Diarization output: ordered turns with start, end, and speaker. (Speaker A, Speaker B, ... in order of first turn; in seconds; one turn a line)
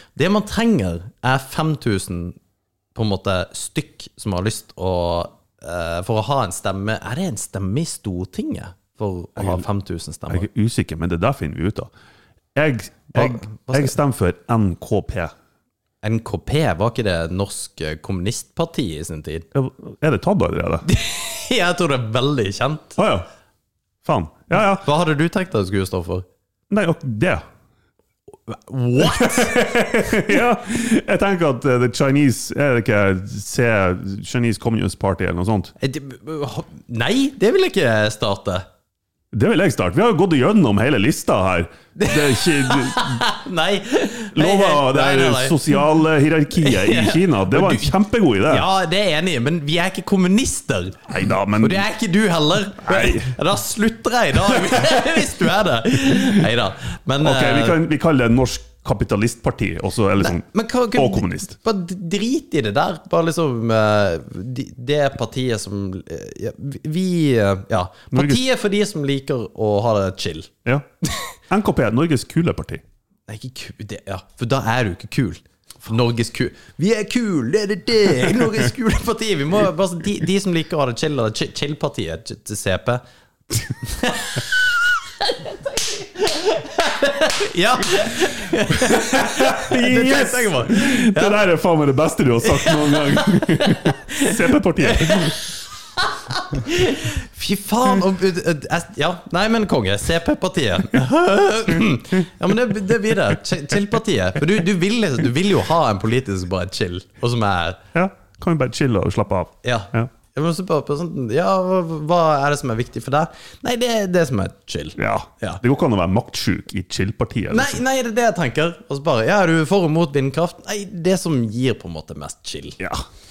Speaker A: 0.1-2.4
Speaker A: 2.9-10.5
Speaker B: 9.4-9.6
Speaker B: 10.3-11.9
Speaker B: 12.5-15.3
Speaker A: 13.1-13.9
Speaker A: 16.0-19.4
Speaker B: 19.5-20.9
Speaker A: 20.9-23.0
Speaker B: 23.0-23.2
Speaker B: 24.0-24.8
Speaker A: 24.7-26.2
Speaker B: 26.7-27.4
Speaker A: 28.5-30.2
Speaker B: 29.0-35.7
Speaker A: 35.8-38.6
Speaker B: 39.3-43.2
Speaker A: 42.0-45.8
Speaker B: 44.3-48.6
Speaker A: 46.5-47.9
Speaker A: 48.5-51.0
Speaker B: 51.1-51.8
Speaker A: 51.6-57.8
Speaker B: 52.8-53.3
Speaker B: 54.6-55.0
Speaker B: 57.2-61.5
Speaker A: 60.2-70.5
Speaker B: 68.1-68.4
Speaker B: 71.5-72.8
Speaker A: 73.3-83.0
Speaker A: 83.8-91.4
Speaker B: 88.7-95.3
Speaker A: 92.4-107.8
Speaker B: 107.9-110.1
Speaker A: 109.6-115.6
Speaker B: 115.0-117.8
Speaker A: 117.5-122.8
Speaker B: 122.8-123.0